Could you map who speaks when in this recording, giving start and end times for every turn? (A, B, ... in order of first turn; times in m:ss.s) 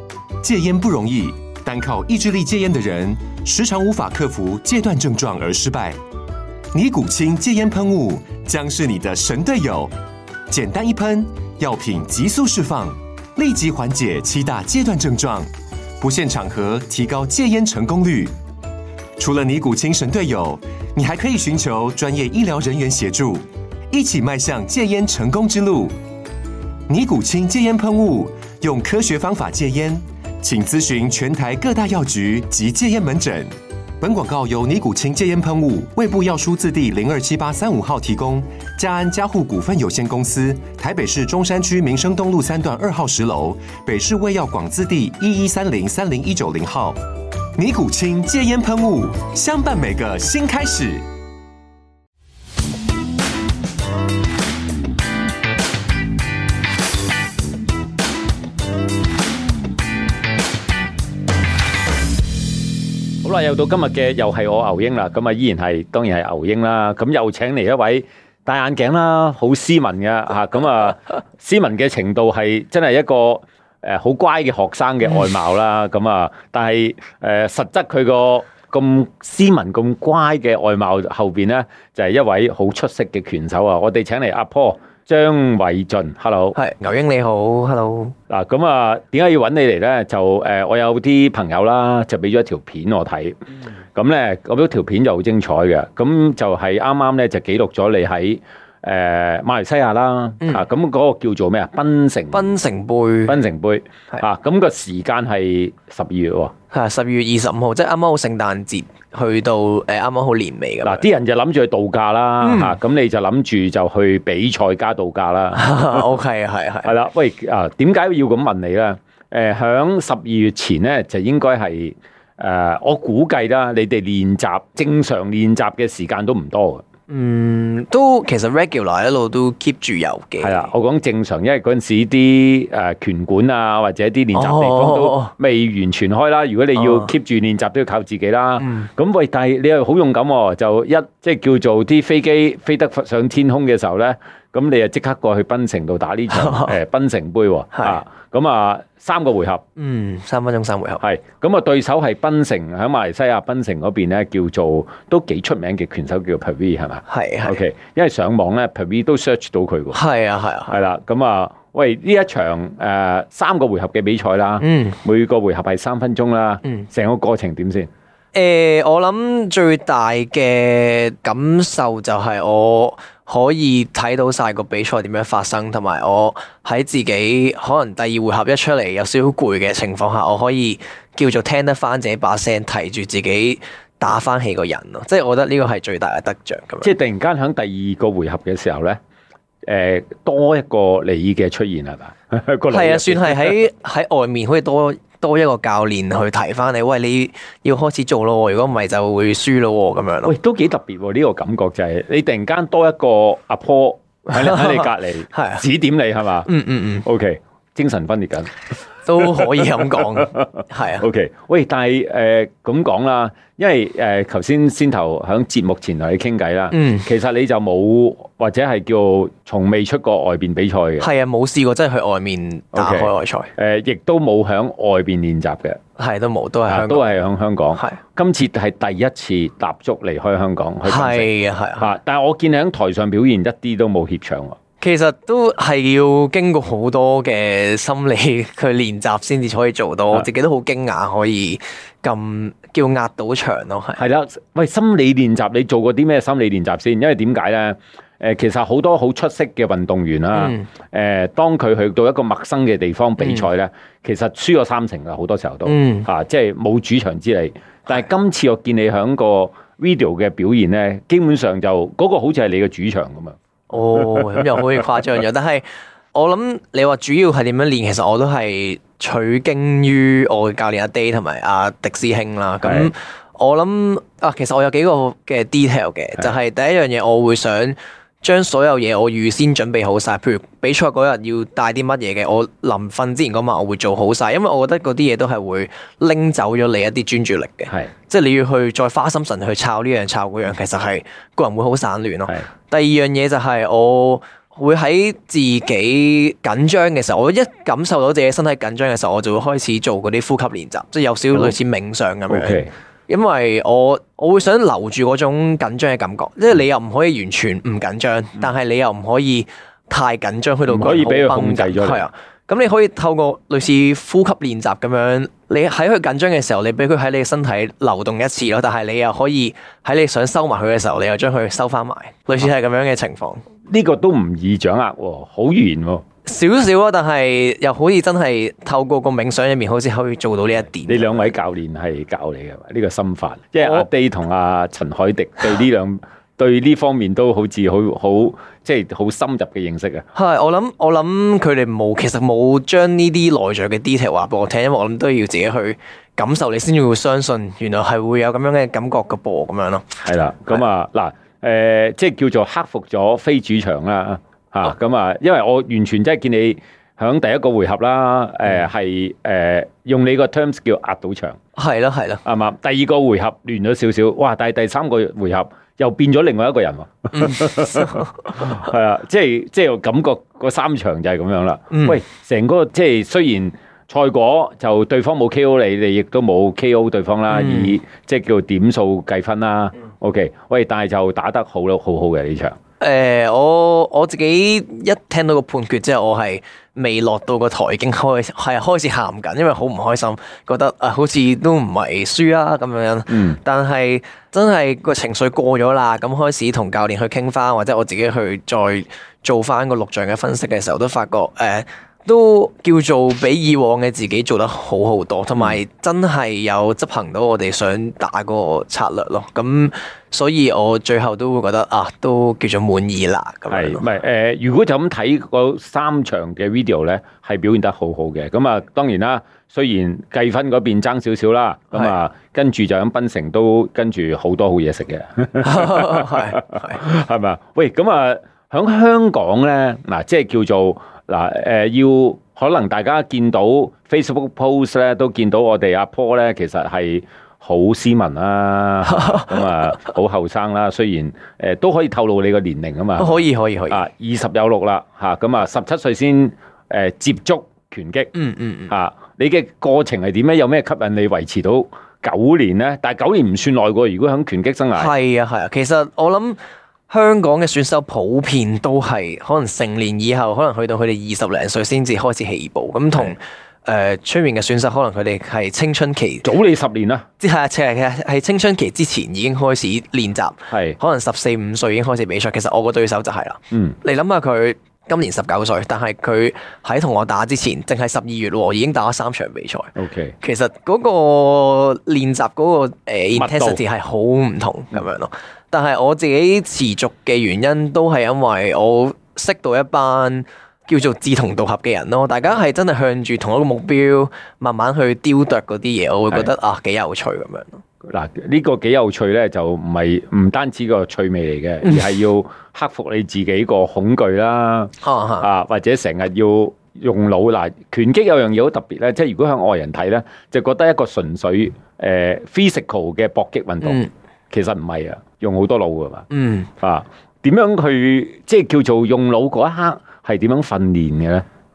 0:00.4-0:06.0 A
0:06.7-0:09.9 A
0:10.5-0:18.4 A
0:19.2-0:26.0 A
0:26.9-0:47.0 A
0:47.6-0:51.1 A
1:03.2-1:26.6 B
1:26.5-1:28.1 C
1:28.3-1:33.4 B
1:33.9-1:42.6 B
1:42.3-1:43.4 C
1:43.2-1:46.5 B
1:46.7-1:51.1 C
1:50.8-1:56.1 B
1:52.4-1:52.8 C
1:55.5-1:56.9 C
1:56.8-2:06.8 B
2:07.1-2:10.7 C
2:10.4-2:29.6 B
2:14.3-2:15.3 C
2:16.8-2:17.1 C
2:18.6-2:18.9 C
2:26.3-2:26.7 C
2:27.7-2:28.0 C
2:29.8-2:31.0 C
2:31.0-2:40.0 B
2:37.1-2:37.6 C
2:39.9-2:40.8 C
2:40.7-2:47.9 B
2:44.6-2:45.0 C
2:48.3-3:06.9 C
3:06.8-3:09.0 B
3:09.6-3:13.6 B
3:12.7-3:20.3 C
3:20.2-3:26.5 B
3:24.3-3:25.6 C
3:26.4-3:27.0 C
3:27.0-3:28.5 B
3:29.0-3:31.0 C
3:29.2-3:41.1 B
3:36.7-3:37.1 C
3:41.0-3:43.5 C
3:42.7-3:45.8 B
3:46.0-3:47.0 C
3:46.7-3:54.6 B
3:50.8-3:51.9 C
3:54.8-4:04.0 C
4:04.0-4:23.4 B
4:10.3-4:10.7 C
4:13.2-4:13.5 C
4:15.6-4:16.1 C
4:23.7-5:23.4 C
4:24.1-4:24.4 B
4:32.6-4:32.9 B
5:02.3-5:02.7 B
5:10.7-5:12.0 B
5:23.7-5:26.0 B
5:26.2-5:31.3 C
5:30.8-5:40.0 B
5:40.1-5:50.0 C
5:50.0-6:01.4 B
6:01.6-6:02.2 C
6:02.2-6:22.6 B
6:07.1-6:08.3 C
6:11.7-6:12.0 C
6:17.3-6:17.8 C
6:22.8-6:53.8 C
6:33.1-6:33.4 B
6:53.5-7:28.1 B
7:05.4-7:06.8 C
7:18.8-7:19.4 C
7:23.0-7:23.8 C
7:28.1-7:28.7 C
7:28.7-7:34.9 B
7:34.8-7:46.3 C
7:46.2-7:47.1 B
7:47.2-8:17.6 C
7:50.5-7:50.8 B
7:59.8-8:00.1 B
8:03.1-8:03.6 B
8:17.8-8:36.0 B
8:24.8-8:25.3 C
8:33.6-8:33.9 C
8:36.1-8:36.5 C
8:36.6-8:41.2 B